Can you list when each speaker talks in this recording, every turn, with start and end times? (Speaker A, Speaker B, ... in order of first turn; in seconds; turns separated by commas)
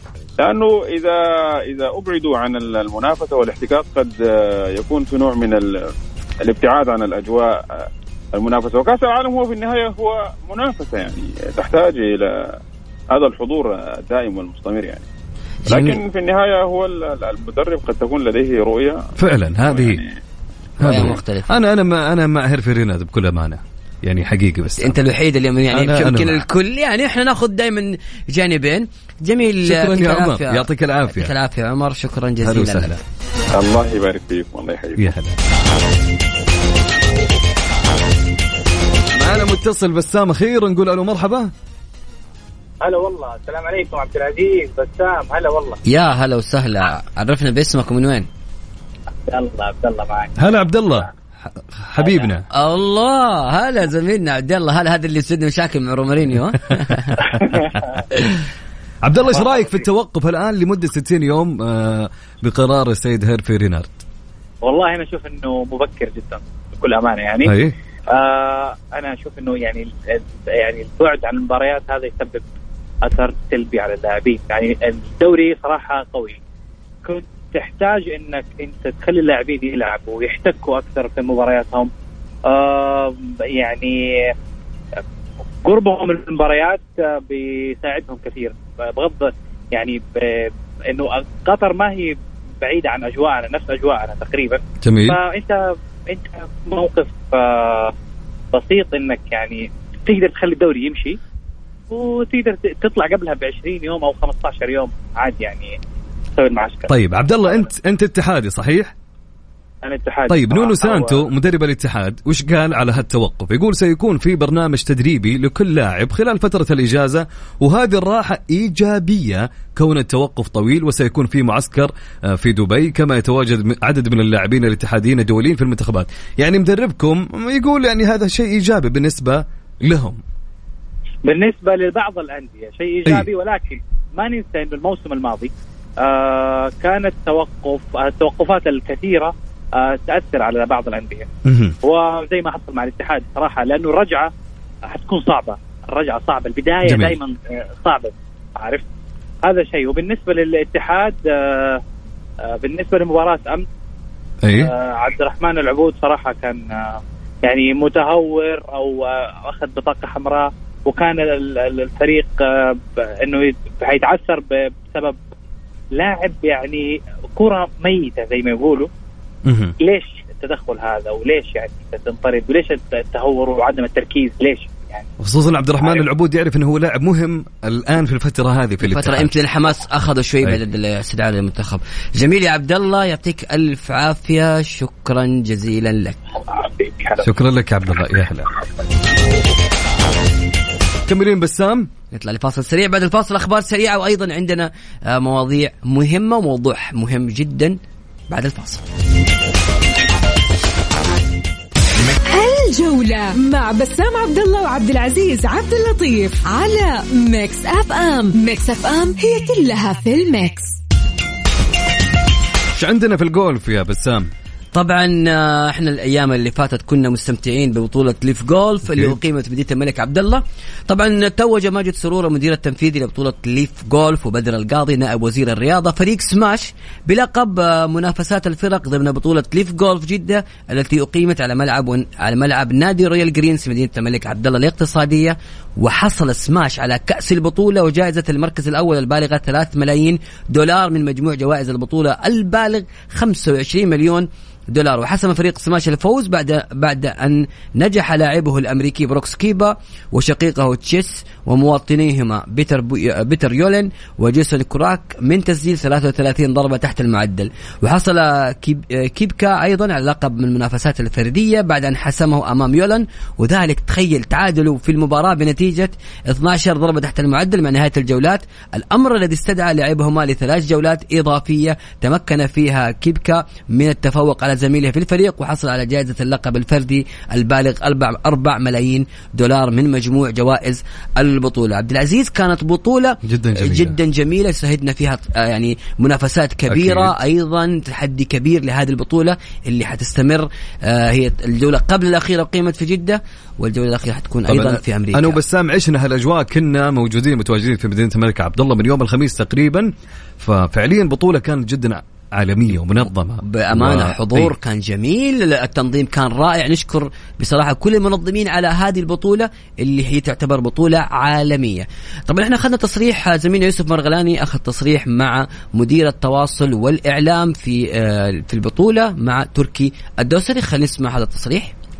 Speaker A: 0.4-5.8, Speaker A: 6.4-12.5, Speaker A: 13.1-15.1, Speaker B: 15.6-16.0, Speaker A: 15.7-20.2, Speaker C: 19.1-20.0, Speaker B: 20.8-21.5, Speaker C: 20.8-24.9, Speaker B: 24.8-33.0, Speaker C: 25.7-26.4, Speaker C: 29.6-31.3, Speaker C: 32.4-33.0, Speaker A: 33.5-35.1, Speaker C: 35.0-35.4, Speaker C: 39.1-41.5, Speaker D: 42.8-45.8, Speaker B: 45.9-48.3, Speaker D: 49.3-50.3, Speaker C: 50.4-51.1, Speaker C: 51.7-52.4, Speaker D: 52.0-52.3, Speaker B: 52.5-57.3, Speaker D: 57.4-58.0, Speaker C: 59.0-63.9, Speaker D: 59.3-59.9, Speaker D: 64.6-67.6, Speaker C: 67.4-67.7, Speaker D: 68.1-72.4, Speaker D: 73.0-76.4, Speaker D: 77.0-81.9, Speaker D: 82.5-84.3, Speaker D: 85.6-97.9, Speaker C: 94.8-95.2, Speaker D: 98.5-101.2, Speaker D: 101.9-105.7, Speaker D: 106.4-106.9, Speaker C: 106.9-108.9, Speaker D: 107.4-107.7, Speaker D: 109.8-111.3, Speaker C: 110.3-130.2, Speaker D: 131.2-135.5, Speaker D: 136.0-141.3, Speaker C: 141.4-141.8, Speaker D: 141.8-144.3, Speaker D: 144.9-148.8, Speaker C: 146.8-147.2, Speaker D: 149.4-151.8, Speaker D: 152.5-153.6, Speaker C: 154.4-154.7, Speaker D: 154.6-165.2, Speaker D: 166.0-168.9, Speaker C: 169.4-169.7, Speaker D: 169.8-175.1, Speaker C: 175.2-179.3, Speaker D: 175.8-176.1, Speaker B: 178.8-186.2, Speaker D: 186.5-187.3, Speaker C: 187.2-188.5, Speaker C: 191.1-191.9, Speaker B: 192.1-197.8, Speaker B: 198.3-198.8, Speaker E: 202.2-210.8, Speaker C: 212.8-214.3, Speaker B: 214.7-295.4, Speaker C: 283.2-283.9, Speaker C: 286.7-287.1, Speaker C: 294.5-304.5, Speaker B: 303.4-321.7